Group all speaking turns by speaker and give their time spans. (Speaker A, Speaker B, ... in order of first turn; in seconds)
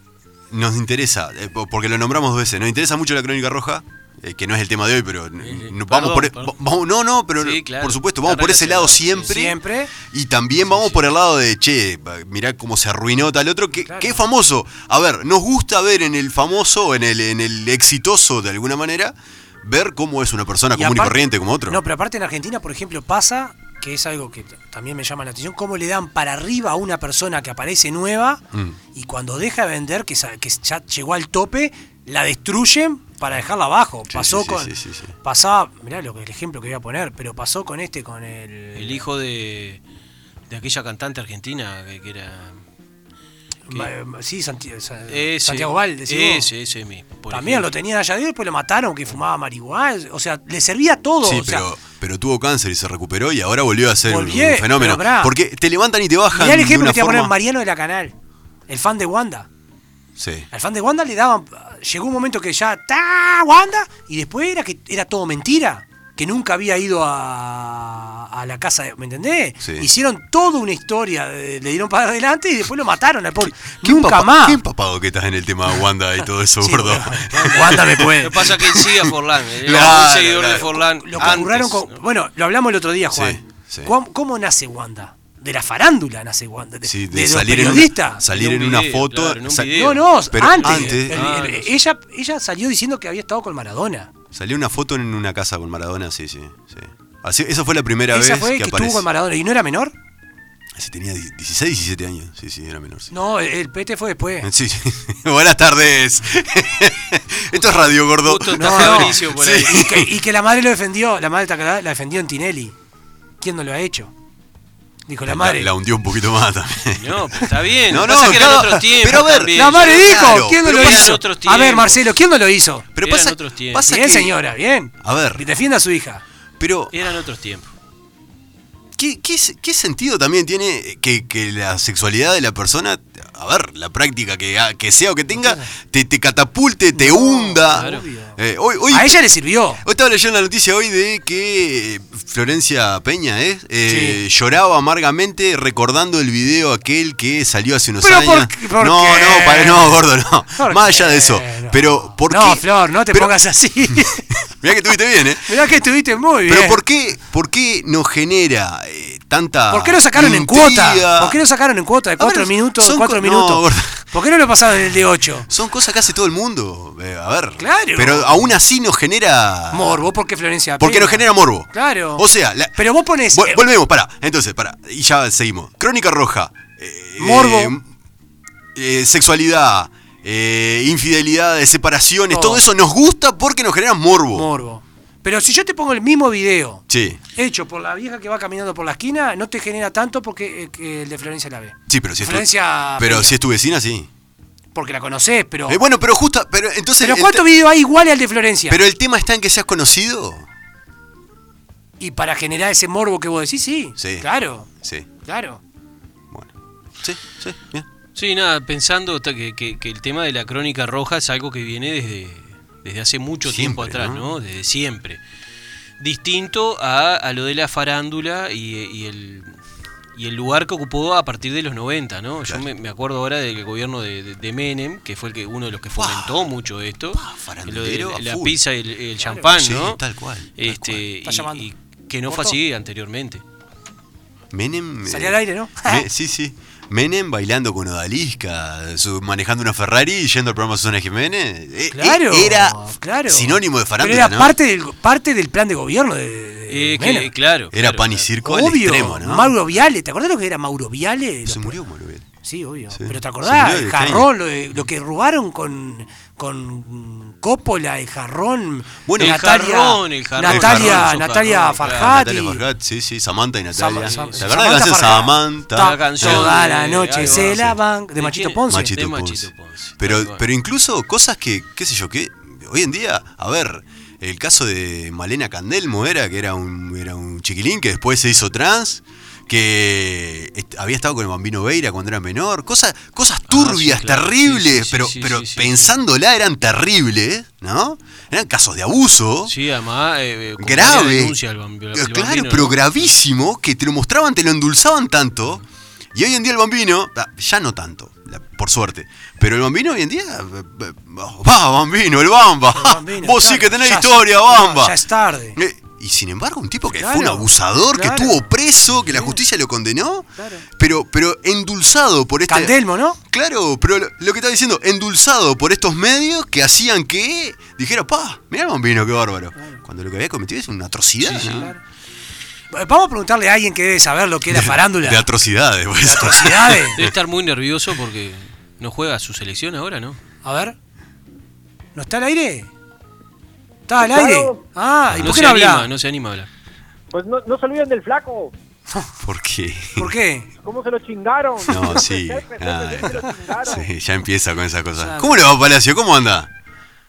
Speaker A: 0.5-21.8, 28.5-28.8, 34.1-35.1, 51.2-57.3, 60.2-60.5, 69.6-69.9, 73.6-81.5, 83.1-83.9, 86.8-91.2, 94.3-99.0, 100.8-103.1, 104.4-110.1, 115.2-121.2, 123.0-124.3, 125.0-125.4, 126.6-126.9, 128.9-139.2, 139.8-153.3, 153.9-155.6, 156.4-161.4, 162.2-164.1, 165.5-170.0, 170.8-177.9, 178.7-184.5, 186.9-187.2, 191.9-194.1, 195.7-197.4, 198.7-200.5, 204.0-205.1, 206.3-207.9, 213.4-214.3, 225.9-226.5, 227.1-228.6, 229.5-231.0, 234.5-244.6, 247.7-249.6, 251.4-252.2, 252.9-254.3, 259.1-259.4, 260.4-261.1, 261.8-266.6, 267.2-267.8, 268.7-289.5, 290.6-291.4, 291.9-295.6, 296.1-305.0, 305.5-312.8, 313.3-321.7, 324.5-327.1, 335.1-335.4, 339.2-340.1, 341.7-346.5
Speaker B: 5.4-6.5, 7.4-9.3, 10.7-11.1, 38.7-39.8, 40.5-42.6, 45.1-47.7, 78.2-82.0, 88.3-91.8, 108.2-109.8, 116.9-122.0, 123.0-123.9, 126.9-127.7, 137.7-138.0, 208.1-215.2, 216.0-219.5, 220.2-230.0, 230.6-233.4, 246.7-248.3, 259.2-262.1, 264.0-264.4, 265.8-267.6, 268.2-270.4, 283.5-285.9, 289.4-293.1, 321.2-321.7, 327.0-330.2, 335.2-336.5
Speaker C: 9.3-9.9, 13.8-14.2, 20.7-34.7, 35.2-39.0, 43.7-46.5, 47.3-51.7, 54.1-55.3, 56.3-58.1, 58.7-59.5, 60.5-74.6, 76.6-78.5, 80.8-88.2, 89.7-94.1, 98.1-99.9, 103.1-104.5, 108.6-112.7, 113.4-114.1, 115.1-115.7, 119.5-122.9, 123.8-126.2, 135.3-135.7, 136.9-138.4, 138.9-139.8, 143.8-144.2, 148.0-150.0, 150.6-154.3, 155.4-156.8, 159.7-165.5, 167.6-168.5, 169.7-173.6, 177.2-177.8, 182.3-182.6, 184.3-186.8, 187.3-193.3, 194.7-195.8, 197.0-198.8, 202.0-204.7, 205.2-205.6, 229.2-229.5, 231.2-231.7, 232.3-232.6, 235.1-236.0, 241.9-247.3, 248.4-251.8, 252.4-262.6, 263.7-268.9, 302.7-305.6, 306.9-308.5, 309.1-309.4, 310.4-310.6, 312.5-313.2, 321.3-321.8, 322.7-325.3, 326.0-327.0, 330.4-330.8, 331.9-332.7, 333.9-335.9, 339.9-340.5, 345.0-345.4
Speaker D: 334.0-334.6, 337.1-338.5, 340.6-343.9